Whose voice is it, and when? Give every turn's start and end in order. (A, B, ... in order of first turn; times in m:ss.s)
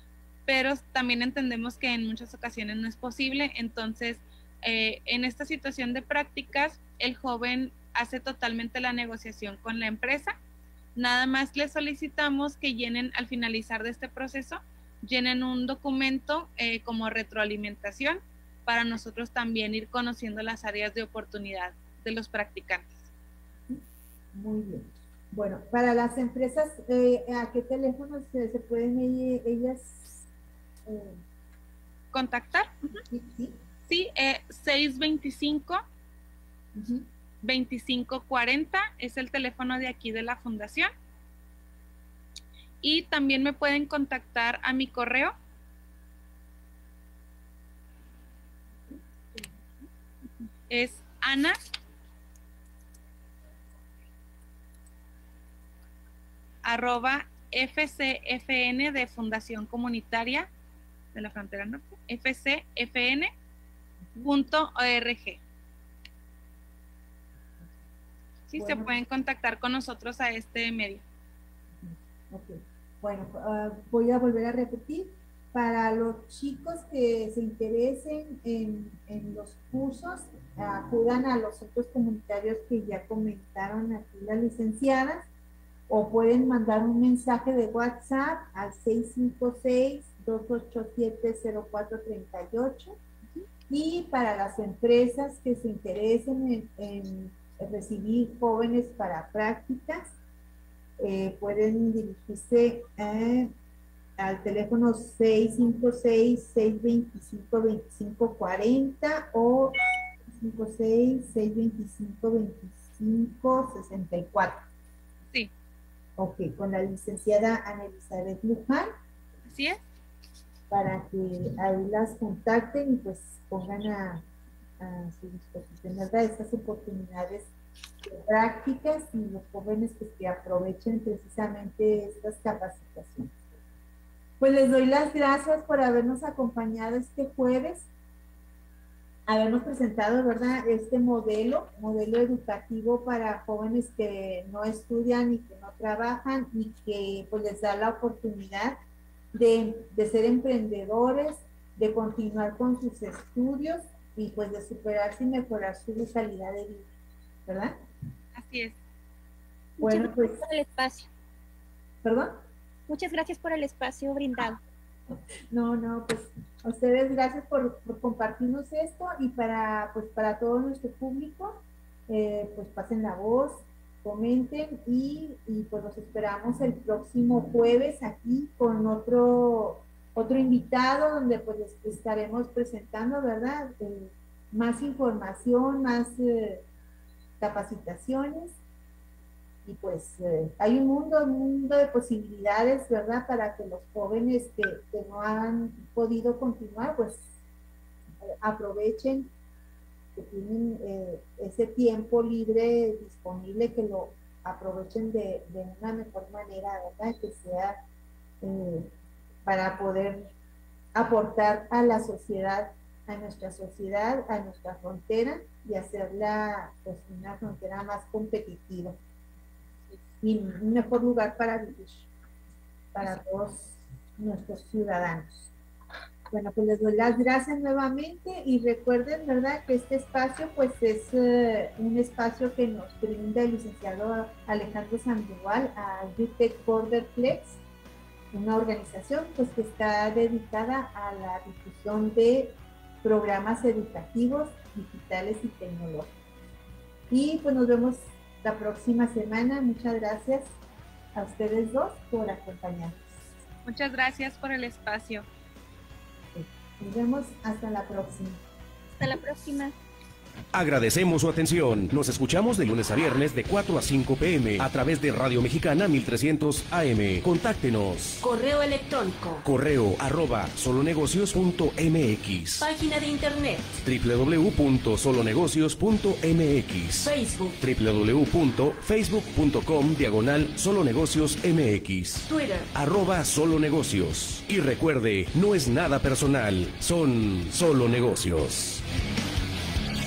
0:00.5-0:10.4 A
0:11.0-0:23.1 A
0:24.3-0:30.3 B
0:30.9-0:31.2 B
0:32.1-0:33.0 A
0:33.1-0:33.6 B
0:33.9-0:35.8 A
0:36.8-0:37.1 B
0:37.4-0:40.9 A
0:42.8-0:45.3 A
0:50.7-0:51.6 A
0:56.6-1:00.5 A
1:01.1-1:03.3 A
1:04.2-1:05.4 A
1:08.5-1:11.0 A
1:08.6-1:08.9 B
1:11.8-1:25.3 B
1:25.9-1:33.0 B
1:33.7-1:40.2 B
1:41.0-1:43.5 B
1:44.2-1:49.8 B
1:50.3-1:54.6 B
1:56.2-1:58.9 B
1:59.5-1:59.8 A
2:00.7-2:04.2 B
2:04.8-2:07.5 B
2:08.0-2:13.3 B
2:14.4-2:17.9 B
2:19.3-2:28.8 B
2:29.3-2:36.9 B
2:37.5-2:37.8 B
2:38.4-2:38.8 A
2:39.8-2:41.1 C
2:39.8-2:40.4 B
2:42.0-2:42.4 B
2:42.9-2:44.6 C
2:45.5-3:06.6 B
3:07.4-3:08.6 B
3:09.6-3:17.4 B
3:18.2-3:19.3 B
3:20.2-3:27.8 B
3:28.4-3:28.9 B
3:29.4-3:30.3 B
3:30.9-3:39.0 B
3:40.2-3:42.1 B
3:42.9-3:45.5 B
3:46.3-3:57.6 B
3:58.3-4:06.1 B
4:07.1-4:10.6 B
4:11.2-4:13.2 B
4:13.6-4:15.3 A
4:16.4-4:18.4 B
4:19.0-4:19.7 C
4:20.5-4:28.2 D
4:28.2-4:29.4 E
4:29.4-4:32.6 D
4:32.6-4:33.8 E
4:33.8-4:48.8 D
4:37.0-4:37.6 E
4:42.3-4:42.7 E